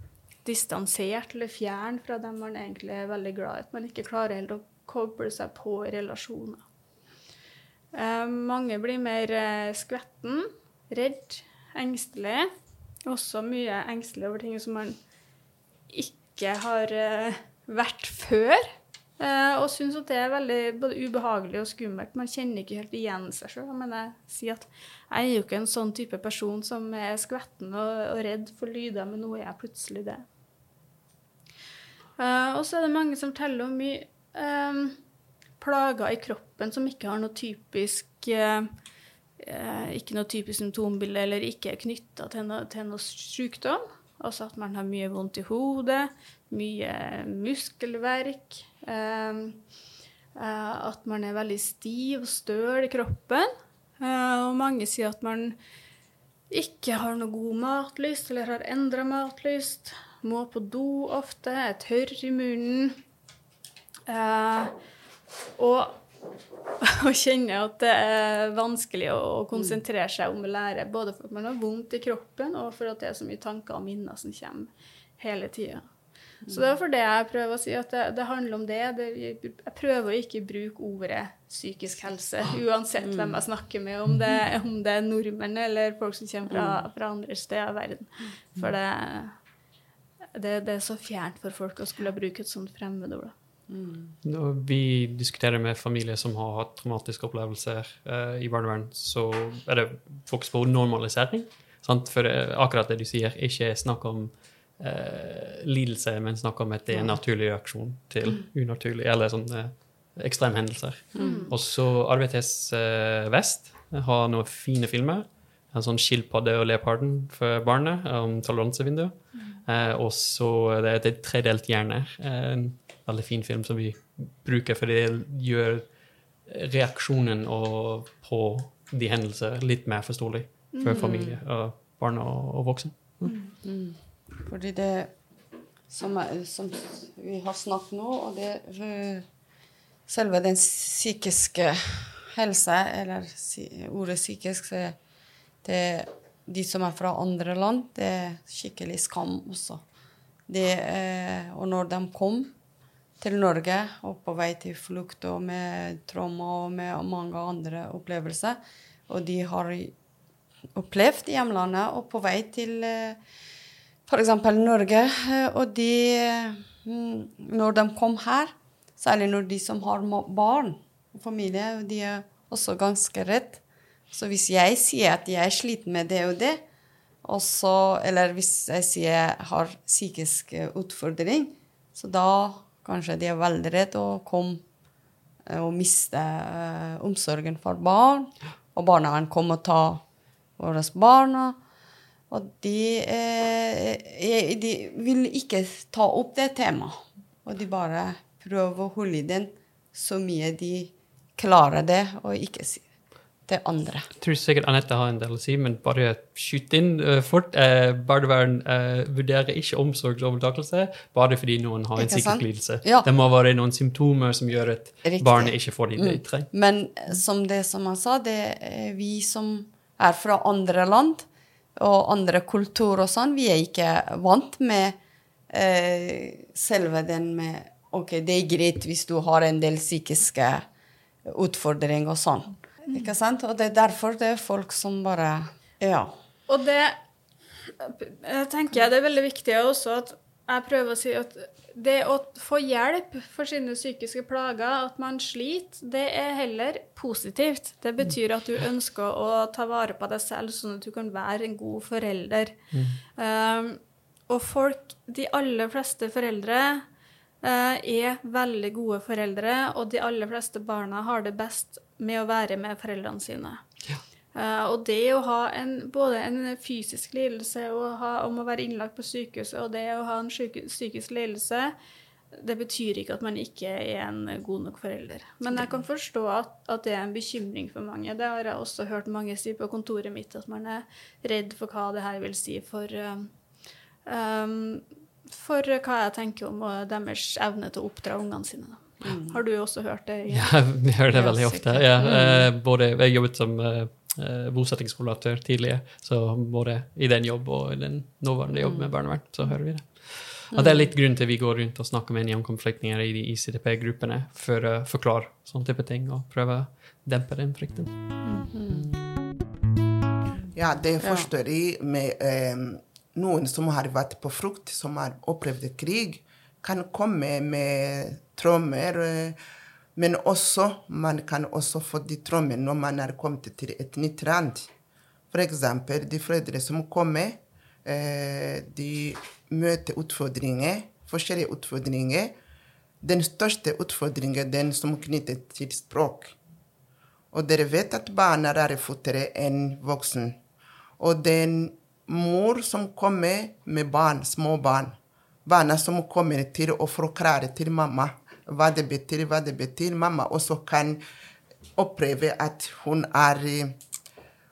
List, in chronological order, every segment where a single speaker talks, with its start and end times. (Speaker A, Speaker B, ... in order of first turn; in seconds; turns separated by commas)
Speaker A: 0.4-6.6, Speaker A: 7.9-12.5, Speaker A: 13.1-15.0, Speaker A: 15.9-18.6, Speaker A: 19.2-30.2, Speaker A: 32.2-35.0, Speaker A: 35.6-38.7, Speaker A: 39.4-49.6, Speaker A: 50.3-55.5, Speaker A: 56.5-63.0, Speaker A: 64.1-64.7, Speaker A: 65.6-66.0, Speaker A: 66.8-75.8, Speaker A: 76.5-89.3, Speaker B: 83.0-83.4, Speaker B: 86.5-86.8, Speaker A: 90.3-93.3, Speaker B: 93.7-94.2, Speaker C: 94.2-133.3, Speaker B: 106.9-107.2, Speaker B: 111.1-111.5, Speaker A: 111.2-111.5, Speaker A: 130.7-131.0, Speaker B: 130.8-131.4, Speaker A: 133.2-133.5, Speaker B: 133.6-135.2, Speaker B: 135.9-139.3, Speaker B: 140.1-145.0, Speaker B: 145.6-149.8, Speaker B: 150.5-152.5, Speaker B: 153.2-159.9, Speaker B: 160.7-163.2, Speaker B: 164.1-176.6, Speaker B: 177.2-184.6, Speaker B: 185.4-190.0, Speaker B: 190.6-191.6, Speaker B: 192.3-202.9, Speaker B: 203.4-204.1, Speaker C: 204.2-216.5, Speaker B: 212.0-213.1, Speaker B: 215.0-225.0, Speaker B: 225.5-230.7, Speaker B: 231.2-236.1, Speaker A: 236.5-237.0, Speaker A: 237.8-252.6, Speaker C: 252.7-253.0, Speaker A: 253.2-256.8, Speaker A: 257.4-263.6, Speaker A: 264.3-271.7, Speaker A: 272.3-283.3, Speaker A: 284.0-290.5, Speaker B: 289.0-289.4, Speaker C: 290.3-308.1, Speaker B: 291.1-292.5, Speaker B: 298.6-298.9, Speaker B: 300.5-300.9, Speaker B: 308.5-308.9, Speaker D: 310.5-319.4, Speaker B: 311.0-311.3, Speaker D: 319.9-324.7, Speaker D: 325.3-332.4, Speaker D: 333.0-336.3, Speaker D: 337.3-340.4, Speaker D: 341.0-351.0, Speaker D: 351.8-353.8